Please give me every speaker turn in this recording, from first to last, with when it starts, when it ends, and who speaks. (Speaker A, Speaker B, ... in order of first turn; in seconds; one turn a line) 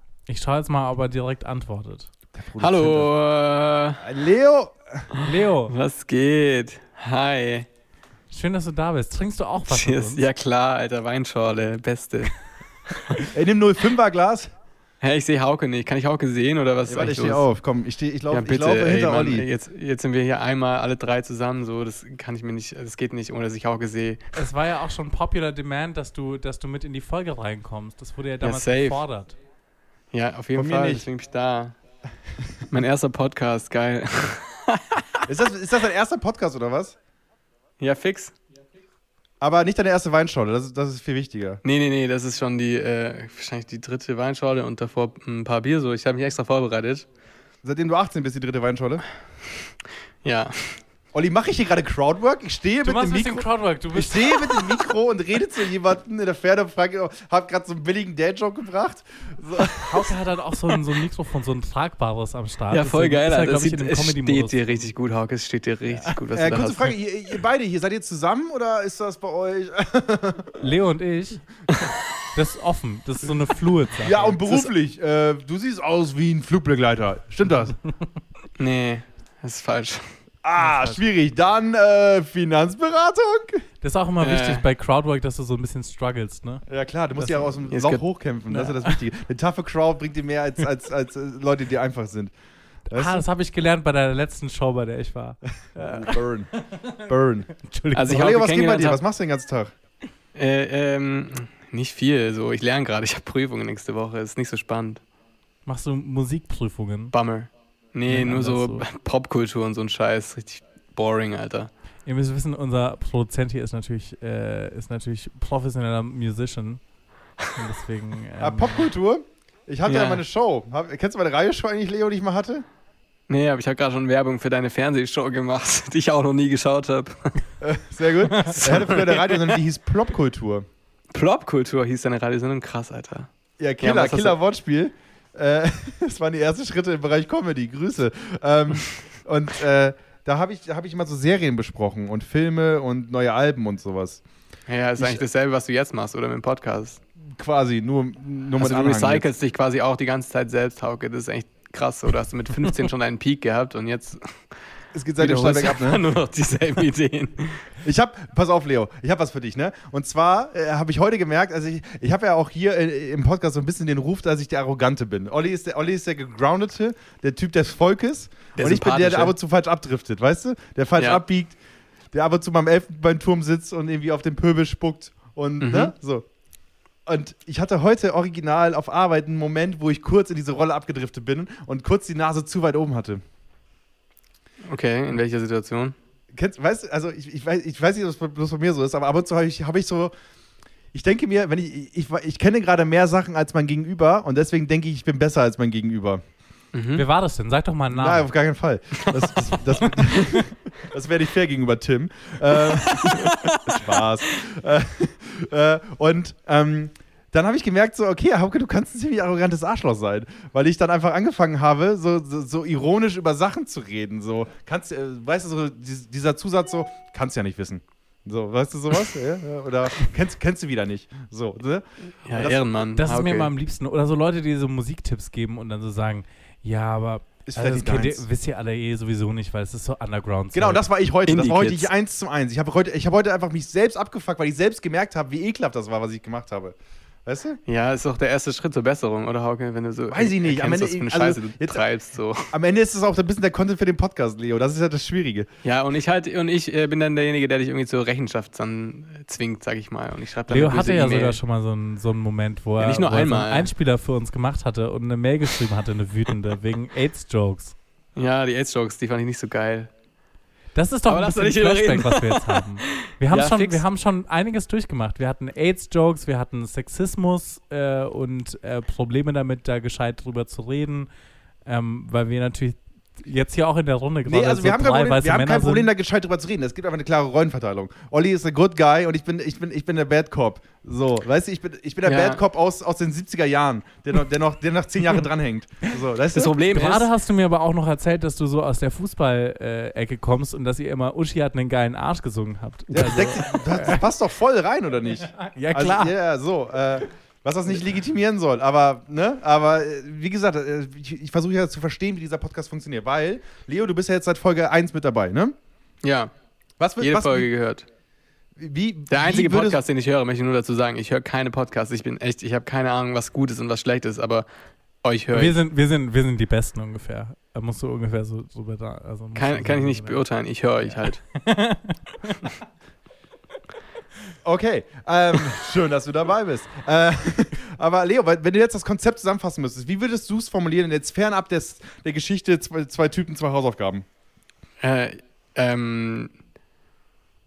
Speaker A: 0.3-2.1
Speaker B: 2.3-3.1
Speaker C: 2.6-4.0
Speaker B: 4.0-5.0
Speaker C: 5.1-7.7
Speaker A: 5.2-5.7
Speaker A: 8.3-10.2
Speaker C: 9.7-12.3
Speaker B: 13.3-14.5
Speaker C: 15.0-17.4
Speaker B: 16.9-19.4
Speaker C: 18.3-24.2
Speaker A: 24.3-29.4
Speaker C: 28.4-29.0
Speaker C: 30.1-31.8
Speaker B: 30.5-31.1
Speaker C: 32.7-35.0
Speaker B: 35.2-37.0
Speaker C: 37.8-38.3
Speaker B: 39.4-41.6
Speaker C: 41.6-47.1
Speaker B: 47.6-49.0
Speaker C: 50.2-50.8
Speaker B: 51.1-60.1
Speaker A: 52.8-54.4
Speaker A: 59.7-64.9
Speaker C: 62.7-66.9
Speaker B: 66.3-70.6
Speaker A: 70.6-71.4
Speaker A: 72.3-74.4
Speaker B: 74.0-77.8
Speaker C: 78.6-80.2
Speaker B: 80.4-83.6
Speaker A: 83.8-86.6
Speaker C: 84.2-84.6
Speaker B: 86.7-92.3
Speaker A: 87.2-87.5
Speaker C: 87.7-88.0
Speaker A: 88.5-89.0
Speaker A: 92.9-96.2
Speaker B: 92.9-93.2
Speaker B: 95.7-97.5
Speaker A: 97.6-98.2
Speaker C: 97.9-99.0
Speaker B: 98.1-99.7
Speaker C: 100.3-105.0
Speaker A: 105.7-107.1
Speaker C: 107.1-111.7
Speaker A: 108.1-108.8
Speaker A: 112.0-116.8
Speaker A: 117.5-118.9
Speaker B: 118.4-122.6
Speaker C: 119.9-120.2
Speaker C: 123.3-127.3
Speaker B: 127.6-130.7
Speaker A: 128.3-128.7
Speaker C: 128.6-129.6
Speaker C: 131.1-133.3
Speaker B: 133.6-144.2
Speaker C: 133.8-134.4
Speaker C: 144.7-147.0
Speaker B: 147.3-149.3
Speaker C: 148.6-154.4
Speaker B: 154.9-156.0
Speaker C: 155.2-157.6
Speaker B: 157.8-171.6
Speaker C: 168.6-169.3
Speaker B: 172.1-176.2
Speaker C: 175.6-175.9
Speaker B: 177.1-183.2
Speaker C: 184.7-185.9
Speaker B: 186.3-190.1
Speaker B: 190.9-196.2
Speaker C: 196.7-197.0
Speaker A: 196.9-198.3
Speaker B: 197.9-222.6
Speaker C: 202.9-203.8
Speaker C: 222.2-223.5
Speaker A: 223.0-230.8
Speaker B: 227.4-228.2
Speaker B: 230.5-237.6
Speaker C: 231.2-231.9
Speaker C: 237.7-242.5
Speaker B: 240.1-241.8
Speaker B: 242.5-245.5
Speaker C: 245.6-251.4
Speaker A: 250.5-257.7
Speaker C: 252.8-253.7
Speaker C: 258.1-259.9
Speaker A: 260.7-271.1
Speaker C: 261.1-263.8
Speaker A: 271.6-275.9
Speaker B: 274.3-286.7
Speaker C: 282.0-282.4
Speaker C: 286.3-287.1
Speaker A: 286.6-294.0
Speaker B: 292.9-305.5
Speaker A: 295.3-296.1
Speaker C: 306.0-306.3
Speaker B: 306.8-307.5
Speaker C: 307.0-307.9
Speaker B: 308.6-309.8
Speaker C: 309.1-314.4
Speaker C: 315.0-315.6
Speaker A: 315.3-320.2
Speaker C: 319.3-321.2
Speaker A: 320.8-322.5
Speaker B: 324.4-334.1
Speaker C: 334.8-336.3